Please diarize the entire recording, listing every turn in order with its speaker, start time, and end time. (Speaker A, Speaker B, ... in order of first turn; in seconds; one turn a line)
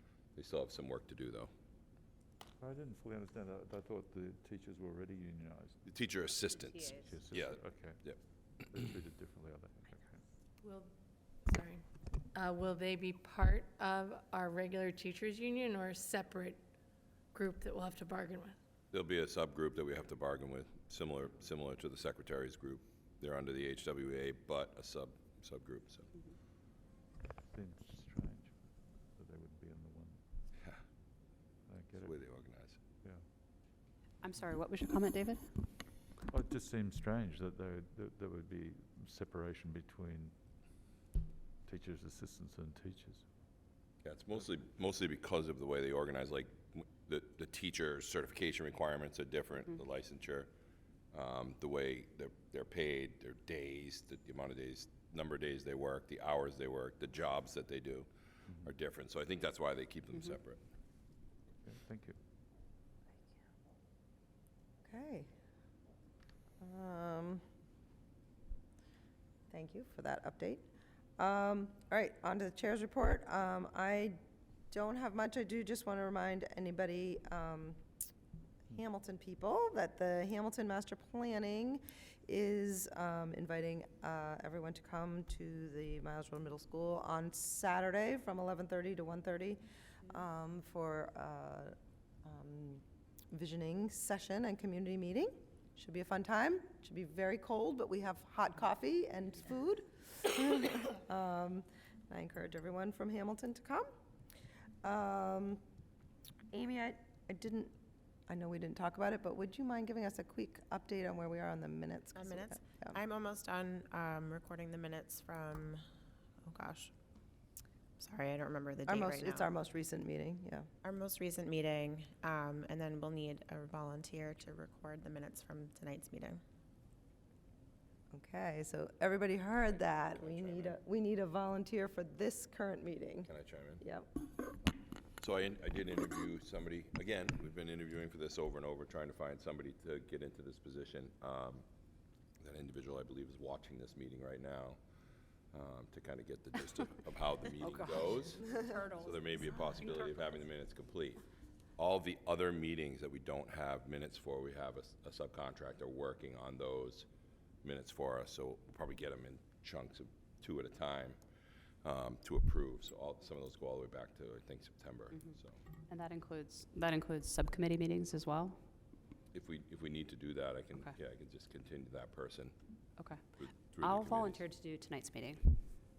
Speaker A: 0.4-1.5
Speaker B: 2.6-5.8
Speaker A: 5.9-8.2
Speaker B: 6.8-8.2
Speaker B: 8.7-10.2
Speaker C: 10.6-10.9
Speaker C: 11.4-16.6
Speaker C: 17.3-18.6
Speaker A: 18.9-26.1
Speaker B: 27.5-30.2
Speaker B: 31.7-32.2
Speaker A: 32.0-32.8
Speaker D: 34.2-35.6
Speaker B: 36.3-40.3
Speaker B: 41.6-43.2
Speaker A: 44.0-50.5
Speaker A: 51.1-58.1
Speaker A: 58.6-60.6
Speaker B: 61.6-62.2
Speaker E: 64.8-65.3
Speaker E: 66.6-67.4
Speaker E: 69.5-70.7
Speaker E: 71.2-74.2
Speaker E: 74.7-77.8
Speaker E: 78.7-103.9
Speaker E: 104.8-105.6
Speaker E: 106.5-107.8
Speaker E: 108.3-113.0
Speaker F: 112.2-115.8
Speaker F: 116.4-116.9
Speaker F: 118.0-119.5
Speaker E: 118.9-120.7
Speaker F: 120.8-126.4
Speaker E: 128.1-133.3
Speaker A: 129.8-130.8
Speaker A: 133.3-133.8
Speaker E: 133.8-134.1
Speaker A: 135.2-141.6
Speaker A: 142.4-144.8
Speaker A: 145.5-148.4
Speaker D: 147.6-150.4
Speaker A: 149.0-151.2
Speaker A: 151.8-157.1
Speaker A: 157.6-161.2
Speaker A: 161.8-165.6
Speaker D: 165.9-168.6
Speaker A: 169.3-172.5
Speaker D: 173.0-175.6
Speaker A: 173.4-174.4